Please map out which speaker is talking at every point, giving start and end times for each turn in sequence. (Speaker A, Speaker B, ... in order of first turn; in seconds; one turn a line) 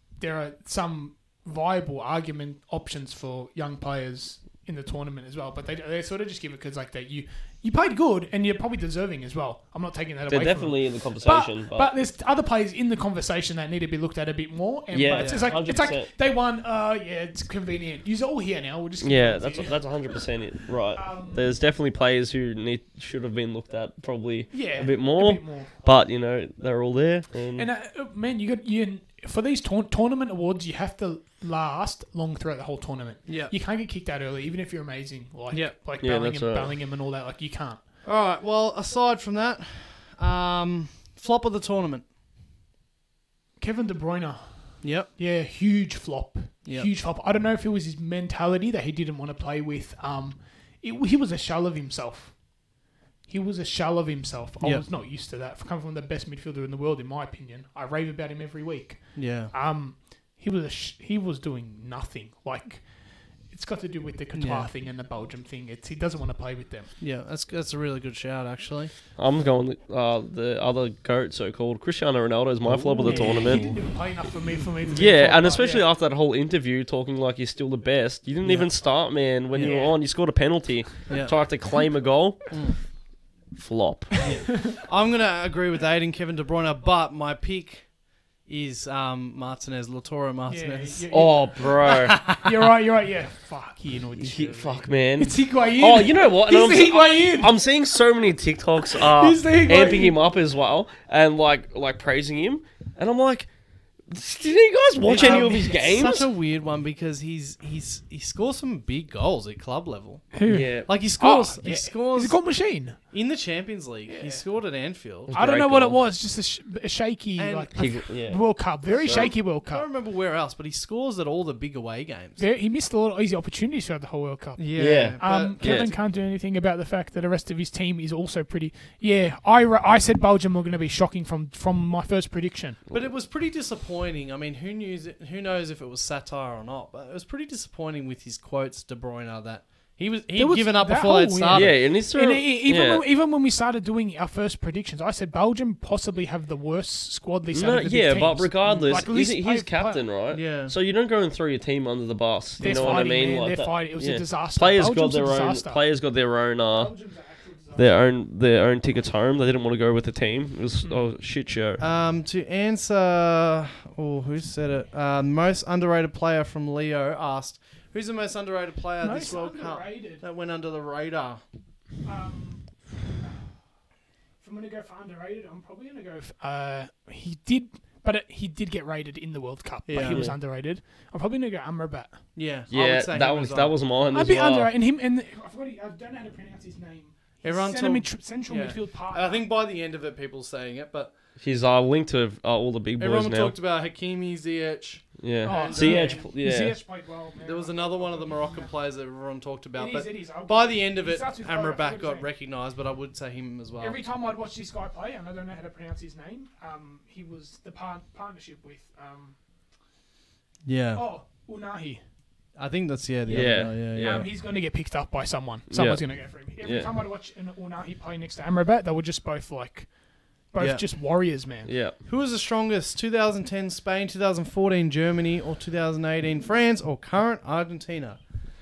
Speaker A: 0.2-19.8
Speaker B: 10.3-11.9
Speaker B: 14.9-16.1
Speaker C: 15.1-15.4
Speaker B: 19.0-27.7
Speaker A: 20.9-21.5
Speaker A: 24.5-25.7
Speaker A: 27.6-37.8
Speaker C: 33.3-33.5
Speaker B: 36.0-36.7
Speaker C: 38.0-42.0
Speaker A: 43.6-52.4
Speaker C: 44.8-45.1
Speaker A: 53.3-66.9
Speaker C: 59.1-59.5
Speaker C: 64.3-64.7
Speaker C: 67.0-68.9
Speaker B: 69.2-73.7
Speaker C: 72.7-73.8
Speaker A: 73.0-75.8
Speaker B: 74.9-82.5
Speaker C: 78.4-78.7
Speaker C: 79.5-79.8
Speaker A: 79.6-79.9
Speaker C: 81.1-81.3
Speaker C: 82.5-82.8
Speaker B: 83.5-84.2
Speaker C: 84.2-87.9
Speaker C: 88.4-91.1
Speaker A: 90.5-97.5
Speaker B: 91.1-92.2
Speaker C: 92.1-92.4
Speaker B: 94.2-103.5
Speaker A: 98.9-100.2
Speaker B: 104.0-106.3
Speaker C: 105.0-112.4
Speaker A: 105.1-105.8
Speaker A: 110.3-113.0
Speaker B: 110.5-110.9
Speaker C: 113.1-115.3
Speaker A: 114.1-114.4
Speaker B: 115.3-116.0
Speaker A: 115.3-119.9
Speaker C: 117.4-117.7
Speaker B: 117.7-119.3
Speaker C: 119.0-122.4
Speaker A: 122.4-132.8
Speaker C: 124.6-126.0
Speaker B: 124.8-125.9
Speaker C: 132.9-141.8
Speaker A: 140.3-150.1
Speaker B: 141.5-143.0
Speaker B: 147.5-156.9
Speaker C: 148.6-148.9
Speaker C: 150.3-150.7
Speaker A: 152.6-155.8
Speaker A: 156.7-157.9
Speaker B: 157.7-161.8
Speaker C: 161.8-171.4
Speaker A: 169.0-170.2
Speaker A: 172.0-172.9
Speaker A: 174.4-182.2
Speaker C: 179.8-180.2
Speaker B: 180.0-180.4
Speaker C: 182.3-183.7
Speaker B: 182.7-184.7
Speaker A: 184.1-189.4
Speaker C: 187.4-191.1
Speaker B: 191.4-193.5
Speaker C: 193.0-196.3
Speaker B: 195.2-196.8
Speaker A: 195.4-198.7
Speaker C: 197.4-204.0
Speaker A: 199.8-202.3
Speaker A: 203.8-209.4
Speaker C: 210.7-211.0
Speaker A: 210.9-212.0
Speaker C: 212.6-214.3
Speaker B: 213.3-214.2
Speaker A: 213.9-219.9
Speaker B: 215.7-216.0
Speaker B: 216.6-216.9
Speaker A: 220.5-221.7
Speaker C: 220.6-220.8
Speaker B: 221.6-222.0
Speaker C: 222.0-228.2